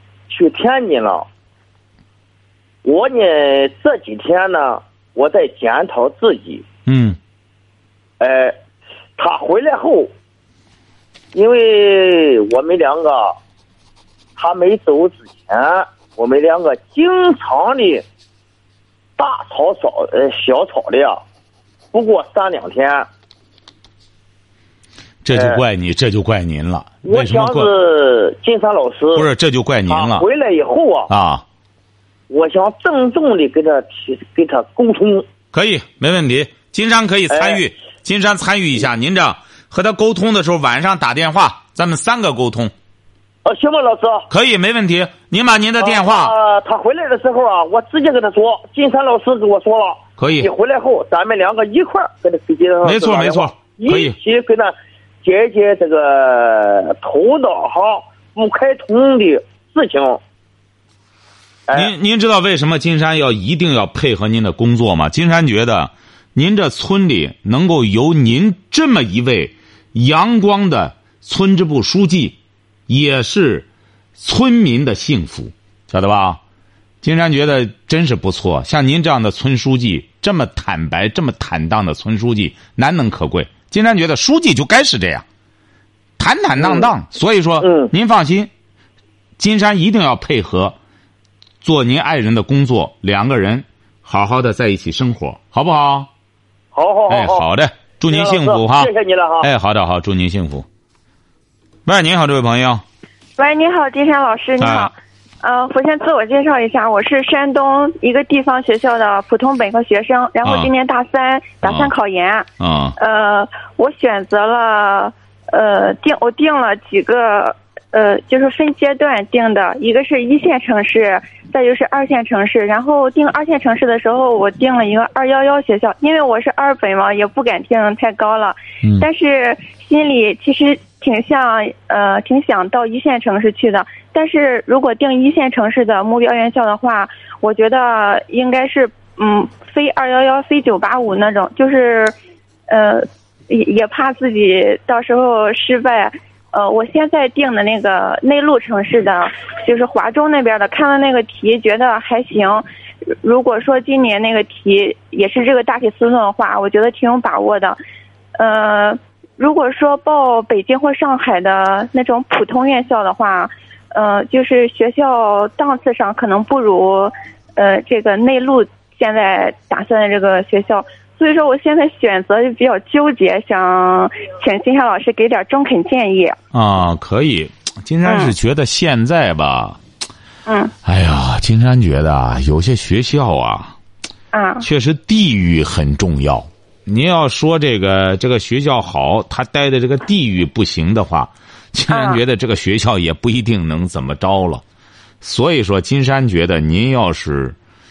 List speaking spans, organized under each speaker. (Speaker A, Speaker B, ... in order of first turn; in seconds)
Speaker A: 0.3-1.3, 2.8-6.7, 8.2-8.6, 9.2-10.1, 11.3-13.4, 14.4-18.1, 19.2-21.2, 21.9-23.1, 25.3-25.6, 27.0-29.3, 29.9-31.1, 32.3-35.3, 37.3-37.6, 43.5-44.3, 45.8-60.2, 61.7-61.9, 86.6-86.9, 87.6-87.9, 96.7-97.5, 98.0-99.5
Speaker B: 6.9-7.2, 25.2-27.7, 29.2-30.3, 31.1-31.4, 35.5-42.7, 44.3-46.3, 50.2-50.5, 52.8-54.2, 61.7-73.7, 74.2-76.4, 77.0-85.2, 86.2-88.5, 89.4-90.8, 91.6-96.1, 97.1-100.7, 101.9-102.8, 104.6-104.9, 110.4-110.7, 111.6-111.9, 112.6-113.0, 176.5-179.8, 180.8-183.8, 184.6-194.6, 195.2-197.6
Speaker C: 103.4-112.5, 113.0-142.1, 142.7-152.7, 153.2-157.8, 158.4-176.4, 178.1-178.3, 180.5-180.7, 184.3-184.7, 191.9-192.2